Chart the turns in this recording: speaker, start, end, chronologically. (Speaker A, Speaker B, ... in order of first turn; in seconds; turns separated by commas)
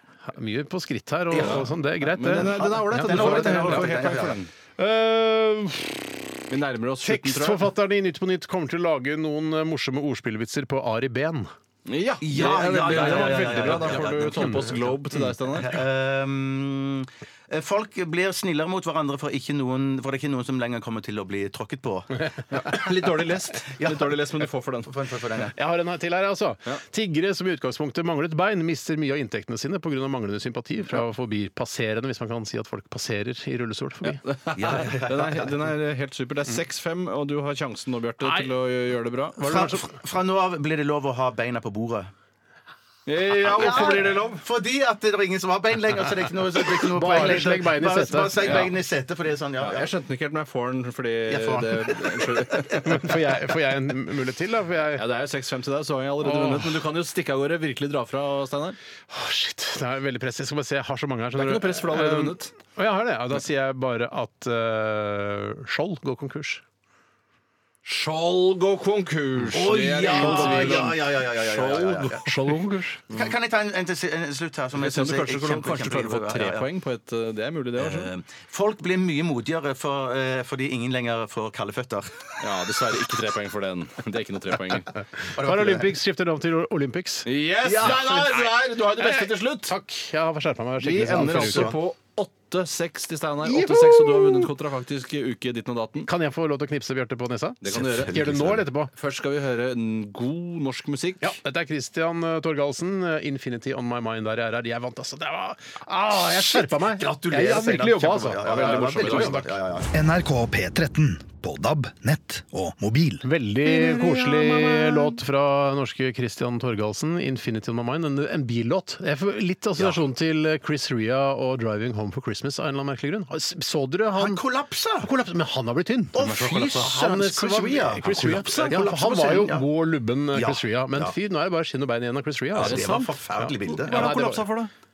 Speaker A: 0.3-4.0, Speaker B: 1.3-1.7, Speaker C: 1.4-4.5, Speaker B: 2.3-4.4, Speaker A: 4.8-6.1, Speaker C: 6.5-7.6, Speaker A: 7.0-11.5, Speaker C: 11.8-15.7, Speaker B: 12.2-22.9, Speaker A: 12.7-14.8, Speaker C: 22.5-24.9, Speaker B: 23.6-24.3, Speaker B: 24.8-25.6, Speaker A: 25.5-34.2, Speaker C: 34.0-39.4, Speaker B: 34.5-35.5, Speaker A: 38.2-38.5, Speaker A: 39.4-39.9, Speaker B: 39.4-42.1, Speaker C: 43.1-44.4, Speaker B: 43.4-49.9, Speaker A: 46.9-48.6, Speaker C: 48.4-48.7, Speaker C: 49.6-53.1, Speaker B: 51.3-53.2, Speaker A: 52.8-55.0, Speaker C: 55.0-58.8, Speaker A: 56.2-56.8, Speaker A: 59.1-66.6, Speaker C: 61.3-62.5, Speaker C: 67.8-73.0, Speaker B: 69.5-72.3, Speaker A: 70.1-70.9, Speaker A: 72.3-72.9, Speaker B: 73.1-76.7, Speaker C: 74.7-78.1, Speaker B: 77.8-82.3, Speaker C: 82.4-84.9, Speaker A: 85.2-87.3, Speaker B: 85.2-85.9, Speaker C: 87.2-89.7, Speaker B: 87.6-88.5, Speaker A: 89.0-91.8, Speaker C: 90.8-96.1, Speaker B: 91.1-91.8, Speaker A: 93.4-94.5, Speaker A: 96.0-98.9, Speaker C: 97.6-101.4, Speaker B: 97.7-98.6, Speaker A: 101.2-109.5, Speaker B: 106.1-109.9, Speaker C: 108.4-109.4, Speaker D: 109.9-113.2, Speaker A: 113.2-124.4, Speaker C: 113.6-115.1, Speaker B: 119.8-120.0, Speaker B: 124.2-125.1, Speaker A: 125.0-134.4, Speaker B: 126.1-129.7, Speaker C: 126.2-126.7, Speaker C: 128.2-128.5, Speaker B: 130.3-131.1, Speaker B: 132.5-134.1, Speaker C: 132.6-134.7